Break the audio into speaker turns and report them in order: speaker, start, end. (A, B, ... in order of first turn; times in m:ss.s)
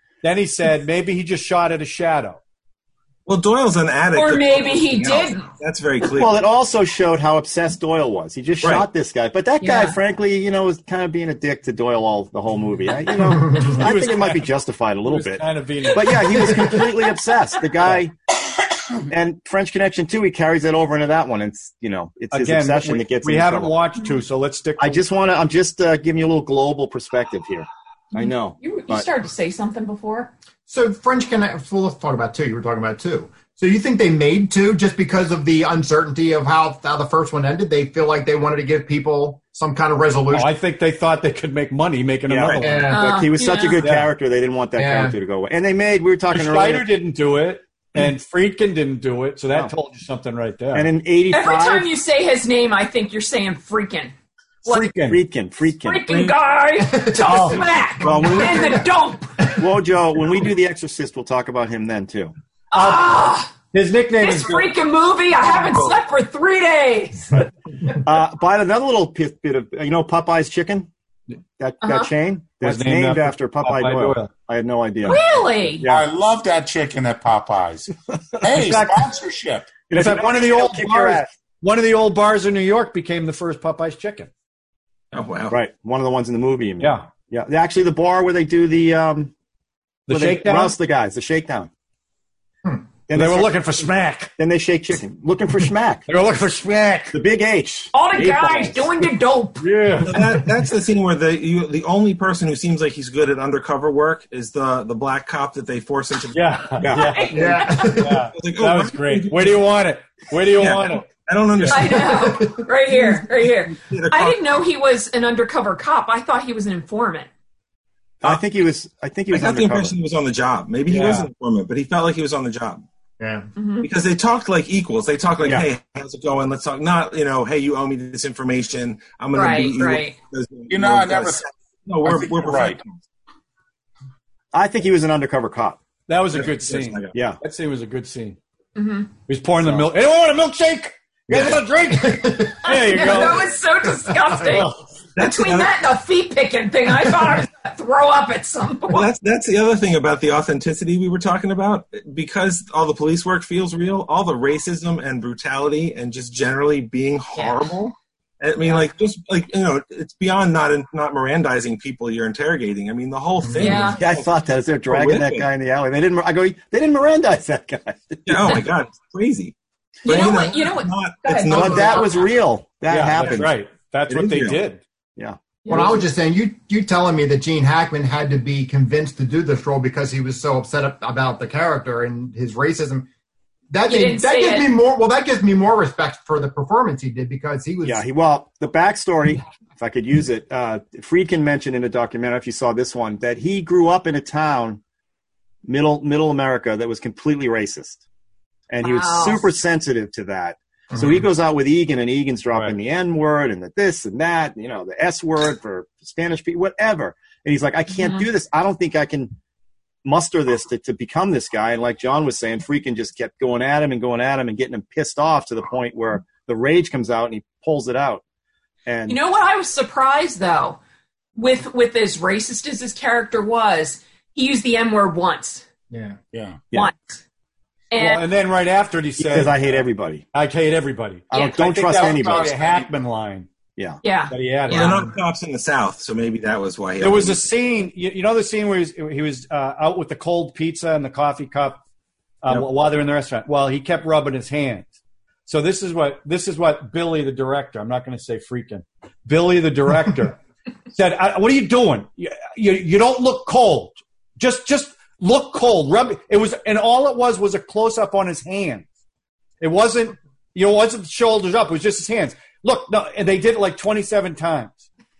0:00.2-0:02.4 A
0:03.2-0:06.4 B
0:04.1-0:05.5 C
0:06.2-0:18.1 D
0:09.6-0:10.0 C
0:13.3-0:13.7 E
0:13.7-0:14.5 A
0:15.0-0:16.5 A
0:19.0-0:23.8 D
0:22.3-0:25.0 A
0:24.8-0:29.1 D
0:28.1-0:30.3 C
0:30.7-0:40.5 E
0:40.3-0:42.9 A
0:42.3-0:46.8 D
0:42.6-0:43.0 E
0:42.9-0:43.8 C
0:43.8-0:44.1 A
0:44.8-0:45.1 E
0:46.3-0:50.9 A
0:50.7-0:51.9 D
0:51.3-0:54.1 C
0:54.6-0:54.9 C
0:54.6-0:55.2 A
0:55.1-0:56.1 D
0:55.8-0:59.5 C
0:56.8-0:58.8 E
0:57.2-0:57.6 A
0:58.0-0:58.8 D
0:59.6-1:02.3 D
1:02.7-1:03.5 C
1:02.7-1:04.7 A
1:04.2-1:08.0 C
1:08.0-1:10.9 D
1:11.6-1:15.2 D
1:11.8-1:12.1 C
1:12.6-1:14.3 A
1:15.0-1:15.8 C
1:15.8-1:16.0 D
1:15.8-1:19.8 F
1:18.6-1:19.0 A
1:19.9-1:21.3 D
1:19.9-1:24.3 A
1:25.1-1:25.6 B
1:25.5-1:29.3 D
1:26.8-1:27.1 A
1:30.1-1:30.7 A
1:30.1-1:31.7 D
1:33.1-1:33.6 D
1:33.1-1:34.3 A
1:34.4-1:36.0 D
1:36.1-1:37.1 A
1:37.1-1:38.9 D
1:37.9-1:39.6 C
1:39.6-1:40.1 A
1:40.0-1:46.9 B
1:46.3-1:51.9 A
1:46.8-1:47.2 D
1:47.0-1:48.0 C
1:47.3-1:48.2 E
1:48.3-1:49.6 B
1:50.5-1:52.2 B
1:51.7-1:57.3 C
1:52.0-1:52.6 E
1:53.7-1:54.4 B
1:58.2-1:59.9 D
1:59.3-2:02.8 B
2:00.9-2:01.3 A
2:03.2-2:03.5 E
2:03.6-2:03.9 C
2:03.8-2:13.0 B
2:09.3-2:10.2 C
2:10.7-2:11.4 F
2:12.0-2:12.8 F
2:14.5-2:15.8 D
2:16.1-2:18.4 A
2:16.3-2:17.1 B
2:18.8-2:19.1 C
2:19.3-2:23.4 A
2:19.6-2:19.9 D
2:21.3-2:21.6 D
2:22.0-2:23.3 E
2:22.6-2:29.1 C
2:25.2-2:25.7 B
2:28.9-2:44.3 B
2:43.4-2:43.8 E
2:43.6-2:44.0 C
2:44.0-2:48.5 D
2:44.9-2:45.5 B
2:48.2-2:52.1 B
2:50.0-2:52.2 C
2:51.5-2:53.5 D
2:52.9-2:54.8 A
2:54.1-2:54.6 B
2:55.6-2:56.0 C
2:55.7-3:03.1 E
3:03.7-3:08.0 E
3:03.8-3:04.7 C
3:07.8-3:14.8 D
3:15.6-3:18.0 D
3:18.7-3:29.3 D
3:18.8-3:19.4 C
3:28.0-3:28.2 C
3:30.0-3:38.2 D
3:38.8-3:39.2 D
3:39.1-3:40.8 C
3:41.4-3:45.6 C
3:45.9-3:46.2 E
3:46.3-3:46.6 F
3:46.7-3:47.2 C
3:47.9-3:48.2 C
3:48.0-3:49.8 A
3:49.2-3:50.2 D
3:50.3-3:53.5 A
3:51.3-3:52.8 D
3:54.0-3:54.9 C
3:54.3-3:55.0 A
3:54.7-3:57.4 B
3:57.0-4:01.8 A
4:02.4-4:04.9 A
4:05.5-4:10.4 A
4:10.9-4:18.8 A
4:19.6-4:24.8 A